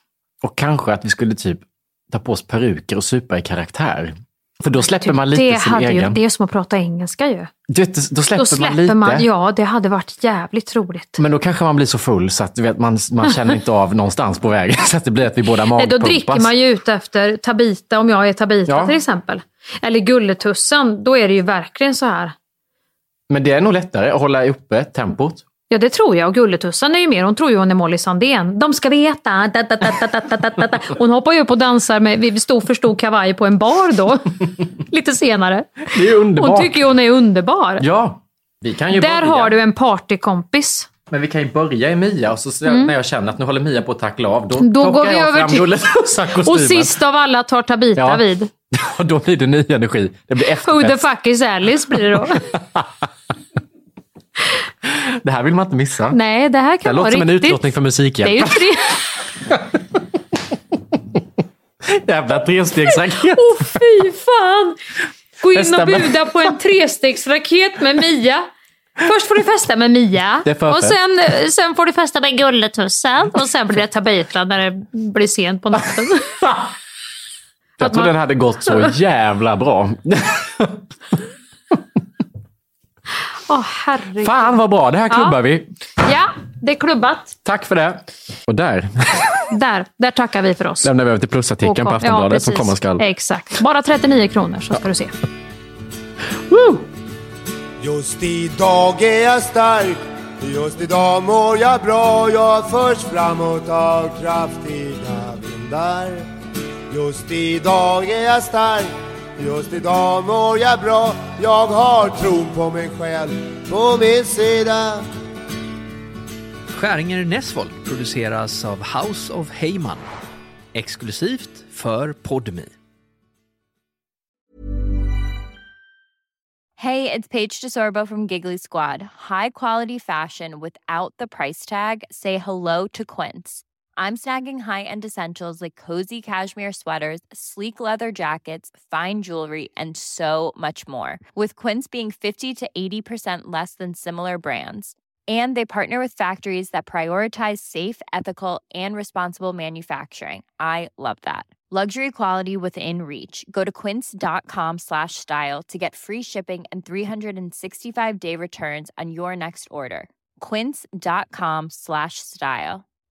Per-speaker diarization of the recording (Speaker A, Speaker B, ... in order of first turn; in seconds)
Speaker A: 0.4-6.2, 7.7-9.3, 11.2-16.5, 18.7-19.0, 23.3-25.5, 35.9-36.8, 37.8-39.5, 41.1-47.0, 48.0-51.1, 54.9-56.2, 56.8-58.7, 61.9-63.6, 65.5-66.3, 70.5-71.0, 77.8-80.8, 84.2-85.7, 87.5-89.2, 90.8-93.0, 96.5-96.8
Speaker B: 5.0-7.5, 8.4-11.2, 15.8-22.4, 25.7-37.8, 38.9-40.9, 42.6-42.9, 44.6-45.8, 46.4-48.5, 50.6-52.4, 56.1-57.6, 58.2-59.0, 63.0-64.8, 65.4-68.5, 69.0-76.3, 77.8-78.1, 78.7-78.9, 83.5-84.6, 85.1-85.4, 86.0-87.4, 89.5-90.9, 91.6-95.1
Speaker C: 97.8-106.3, 106.9-115.0
Speaker D: 116.7-120.1, 120.7-122.8
Speaker E: 126.8-162.8